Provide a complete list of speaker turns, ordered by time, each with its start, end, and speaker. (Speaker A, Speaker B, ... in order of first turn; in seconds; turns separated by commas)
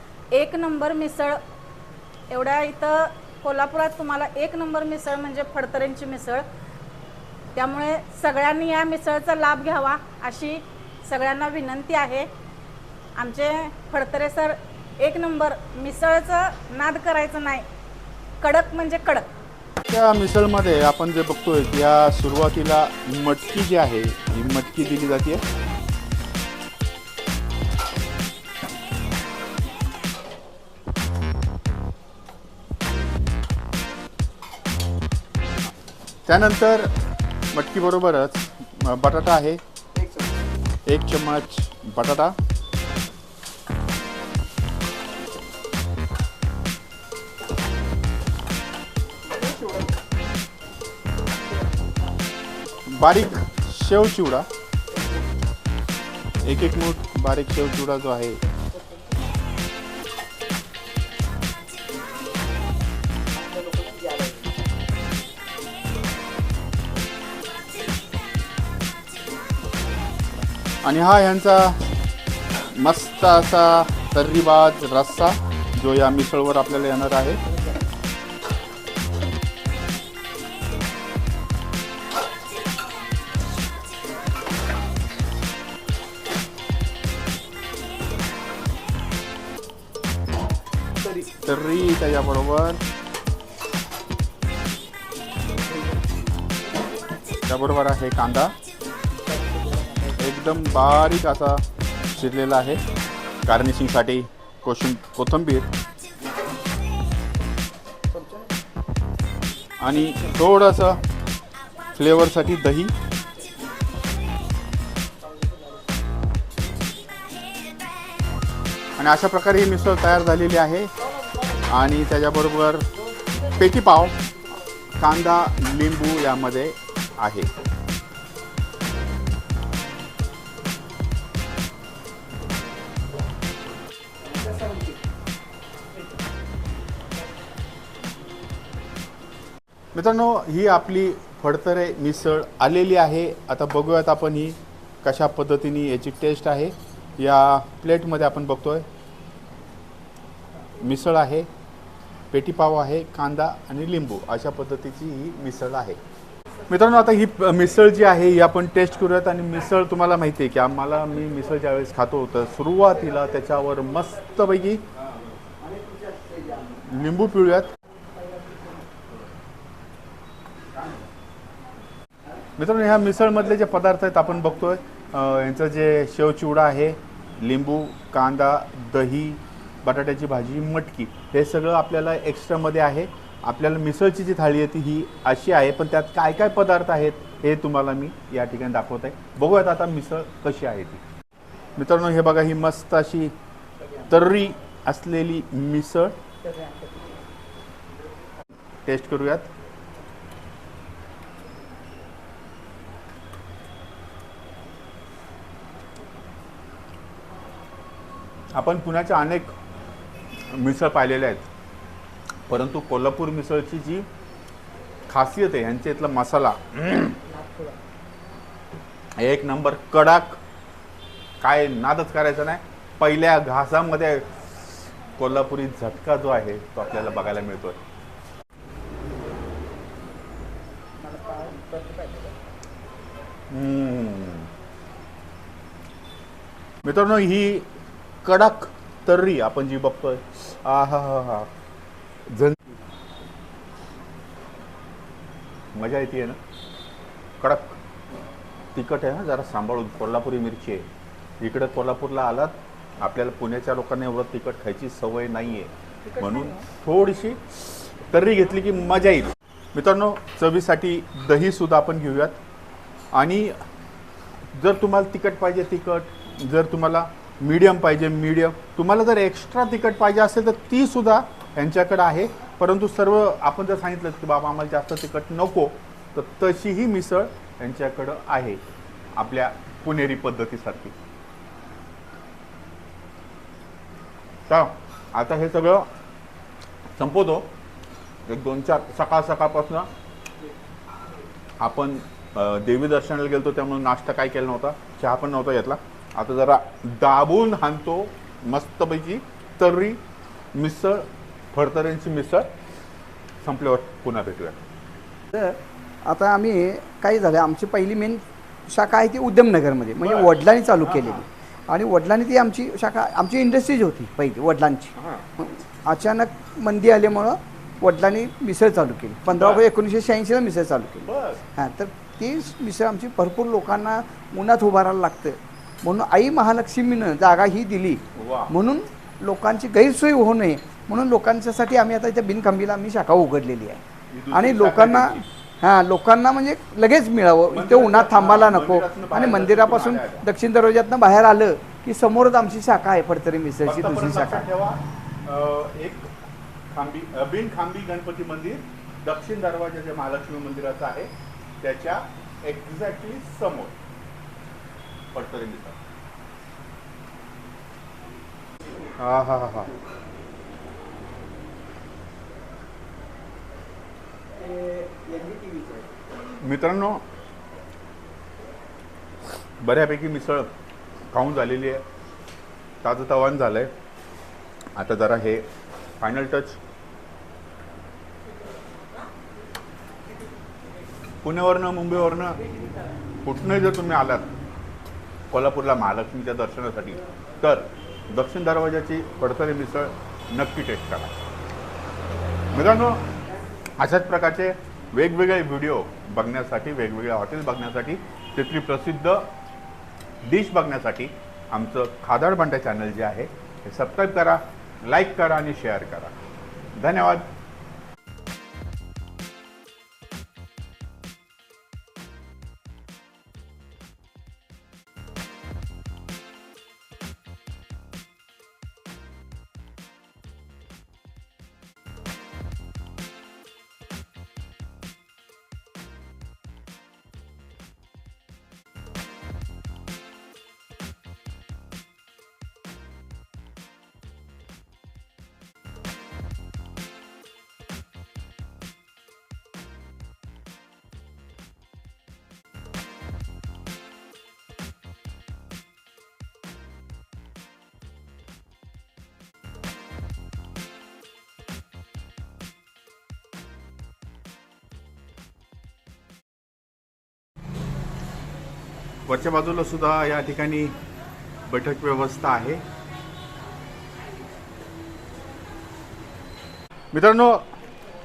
Speaker A: 0.3-1.4, Speaker A: 2.3-6.5, Speaker A: 7.5-12.3, Speaker A: 13.2-17.6, Speaker A: 18.4-19.3, Speaker B: 19.8-25.4, Speaker B: 36.2-36.9, Speaker B: 37.5-39.6, Speaker C: 39.9-40.4, Speaker B: 40.9-42.4, Speaker C: 49.3-49.9, Speaker B: 52.9-54.5, Speaker B: 56.4-58.4, Speaker C: 63.4-64.5, Speaker B: 70.8-71.8, Speaker B: 72.7-77.4, Speaker B: 91.4-92.8, Speaker B: 97.5-98.5, Speaker C: 99.2-100.1, Speaker B: 100.2-102.8, Speaker B: 103.5-105.7, Speaker C: 108.1-108.5, Speaker B: 109.8-111.0, Speaker C: 110.1-110.3, Speaker B: 111.9-112.9, Speaker B: 119.0-120.9, Speaker B: 121.6-122.9, Speaker B: 123.5-124.2, Speaker B: 125.0-127.5, Speaker C: 134.2-135.0, Speaker B: 139.9-148.8, Speaker B: 150.8-151.5, Speaker B: 152.3-156.0, Speaker B: 156.7-164.8, Speaker C: 165.6-166.9, Speaker B: 166.9-167.7, Speaker B: 172.6-191.0, Speaker B: 191.8-193.3, Speaker B: 194.1-196.2, Speaker B: 198.8-199.5, Speaker B: 208.5-209.5, Speaker B: 210.5-211.5, Speaker B: 212.5-214.1, Speaker B: 215.1-217.2, Speaker B: 219.2-220.4, Speaker B: 221.4-227.8, Speaker C: 231.0-232.3, Speaker B: 233.5-234.5, Speaker B: 236.8-237.7, Speaker B: 238.2-241.5, Speaker B: 242.3-242.6, Speaker B: 245.7-246.4, Speaker B: 247.4-247.8, Speaker B: 248.7-250.9, Speaker B: 251.4-262.4, Speaker B: 263.1-263.6, Speaker B: 264.5-278.6, Speaker B: 279.1-280.9, Speaker B: 284.5-285.9, Speaker B: 286.9-287.5, Speaker B: 288.2-289.9, Speaker B: 291.6-300.0, Speaker B: 300.5-302.5, Speaker B: 303.4-304.6, Speaker C: 305.3-344.5, Speaker B: 310.0-311.2, Speaker B: 314.9-315.3, Speaker B: 319.3-319.6, Speaker B: 321.0-321.4, Speaker B: 328.1-328.5, Speaker B: 334.1-335.3, Speaker B: 337.5-340.2, Speaker B: 343.6-346.1, Speaker B: 346.7-351.1, Speaker B: 351.6-353.7, Speaker B: 355.1-355.8, Speaker B: 359.0-359.7, Speaker C: 364.4-365.9, Speaker B: 366.4-367.0, Speaker B: 369.6-370.5, Speaker B: 371.1-371.8, Speaker B: 372.8-373.7, Speaker B: 374.7-375.5, Speaker B: 376.0-376.6, Speaker B: 381.2-382.4, Speaker B: 383.2-384.3, Speaker B: 385.3-391.1, Speaker B: 392.5-393.1, Speaker B: 393.8-399.3, Speaker B: 400.2-406.1, Speaker B: 406.7-407.3, Speaker B: 459.1-460.7, Speaker B: 461.5-462.6, Speaker B: 466.9-467.5